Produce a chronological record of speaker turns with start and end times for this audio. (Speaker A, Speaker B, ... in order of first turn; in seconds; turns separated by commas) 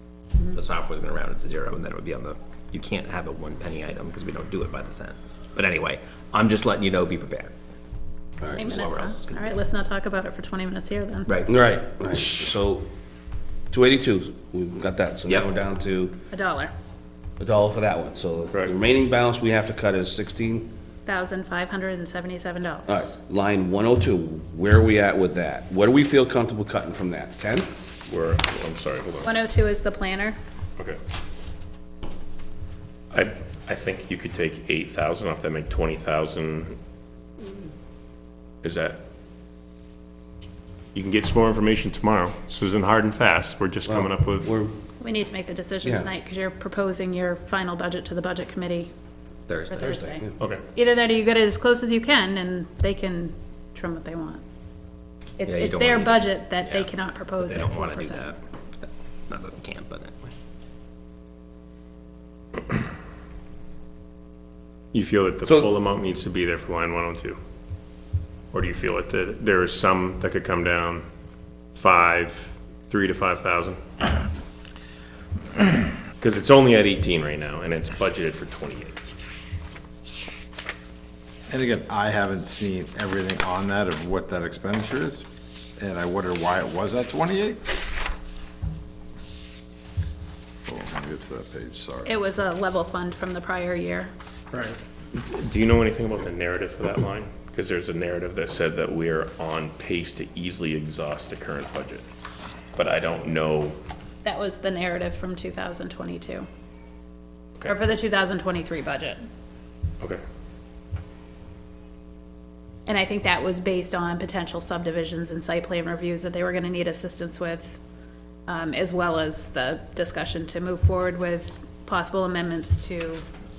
Speaker A: 0.5-7.5, Speaker B: 8.4-8.7, Speaker C: 8.5-11.3, Speaker A: 8.6-9.6, Speaker A: 11.3-11.6, Speaker B: 11.5-12.9, Speaker B: 13.7-16.2, Speaker A: 15.3-15.5, Speaker C: 16.3-16.7, Speaker B: 17.4-20.7, Speaker C: 21.1-23.1, Speaker B: 22.9-27.7, Speaker D: 28.1-29.3, Speaker C: 29.2-30.4, Speaker D: 33.1-36.8, Speaker D: 38.6-39.0, Speaker D: 40.9-44.6, Speaker B: 43.9-44.8, Speaker C: 45.0-48.9, Speaker B: 45.8-46.1, Speaker A: 49.5-50.0, Speaker C: 49.7-54.4, Speaker B: 49.8-50.4, Speaker D: 50.4-50.6, Speaker C: 55.4-58.4, Speaker A: 55.5-60.3, Speaker D: 64.9-67.4, Speaker D: 68.5-71.0, Speaker D: 71.8-73.8, Speaker D: 76.2-79.1, Speaker E: 81.5-85.2, Speaker E: 85.8-87.8, Speaker E: 90.7-92.1, Speaker C: 92.0-94.1, Speaker D: 94.6-102.0, Speaker D: 102.8-103.8, Speaker C: 104.2-106.5, Speaker C: 107.7-109.2, Speaker C: 112.9-117.8, Speaker C: 118.5-123.2